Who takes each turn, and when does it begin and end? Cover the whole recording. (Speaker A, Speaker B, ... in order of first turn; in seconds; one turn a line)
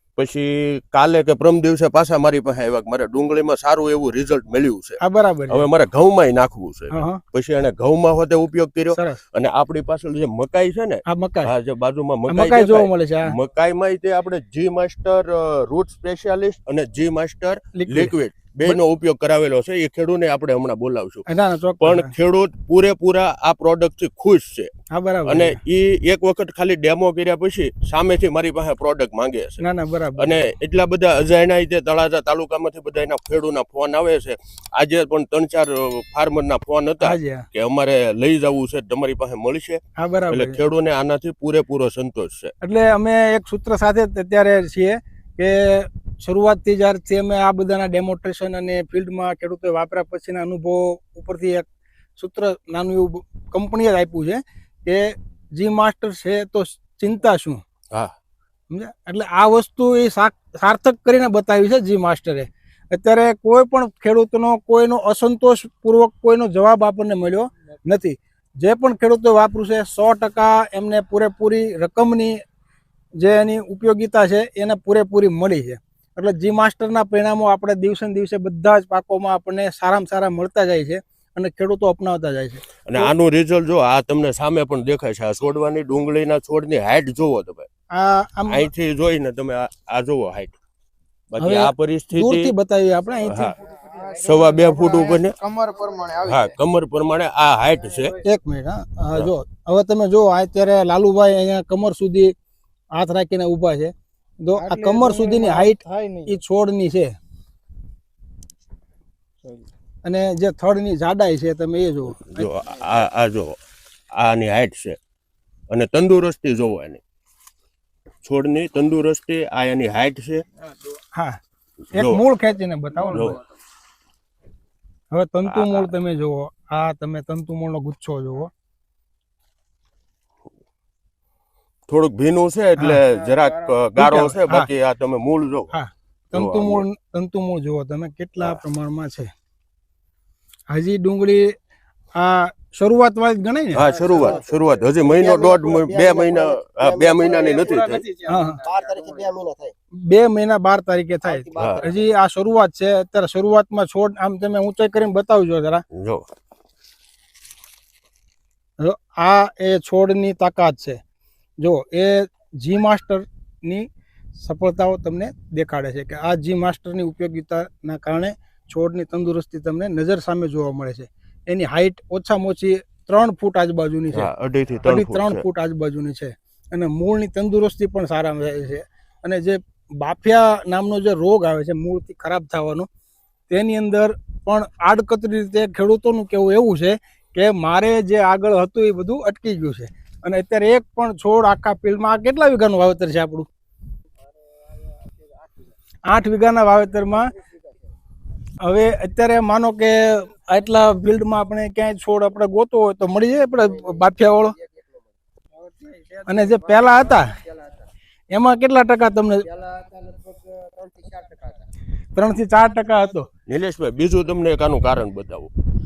Speaker A: 0.2-21.2
Speaker B: 5.0-5.7
Speaker B: 6.9-7.2
Speaker B: 8.9-9.2
Speaker B: 11.1-11.5
Speaker B: 12.3-13.3
Speaker B: 17.7-18.8
Speaker B: 21.3-22.1
Speaker A: 21.8-24.7
Speaker B: 24.9-25.6
Speaker A: 25.2-29.6
Speaker B: 29.6-30.4
Speaker A: 30.2-42.5
Speaker B: 37.0-37.5
Speaker B: 40.0-40.6
Speaker B: 42.6-51.6
Speaker B: 52.2-57.6
Speaker B: 58.7-72.4
Speaker B: 73.2-83.1
Speaker A: 82.8-87.7
Speaker B: 87.9-88.7
Speaker A: 88.5-90.5
Speaker A: 91.3-92.5
Speaker B: 91.4-93.5
Speaker A: 93.2-93.6
Speaker C: 93.8-96.5
Speaker A: 94.2-95.3
Speaker A: 96.2-98.1
Speaker B: 98.2-102.3
Speaker B: 102.9-107.2
Speaker C: 104.5-106.4
Speaker B: 110.0-112.5
Speaker A: 112.2-113.6
Speaker A: 114.1-115.0
Speaker A: 115.7-117.0
Speaker A: 118.2-120.4
Speaker B: 121.1-121.4
Speaker A: 121.9-122.2
Speaker B: 121.9-123.4
Speaker A: 123.1-123.4
Speaker B: 125.1-128.5
Speaker A: 125.4-125.9
Speaker A: 131.9-135.7
Speaker B: 132.8-133.0
Speaker B: 133.9-134.7
Speaker B: 135.7-139.3
Speaker A: 136.3-136.8
Speaker B: 140.7-141.6
Speaker B: 142.1-143.9
Speaker A: 143.7-148.1
Speaker D: 143.8-147.8
Speaker C: 147.2-149.2
Speaker B: 148.3-148.6
Speaker D: 148.4-149.7
Speaker B: 150.0-155.8
Speaker D: 151.2-152.1
Speaker A: 151.6-151.8
Speaker A: 156.0-156.2
Speaker B: 158.8-161.0
Speaker B: 161.6-174.3
Speaker A: 174.1-175.4
Speaker B: 174.8-182.9
Speaker B: 183.5-193.5
Speaker D: 194.6-195.7
Speaker B: 196.1-197.3
Speaker D: 197.1-197.7
Speaker B: 198.6-204.5
Speaker D: 203.5-205.1
Speaker D: 205.7-207.8
Speaker B: 206.2-207.3
Speaker B: 208.3-209.4
Speaker D: 209.4-211.7
Speaker B: 212.1-213.3
Speaker A: 213.5-215.5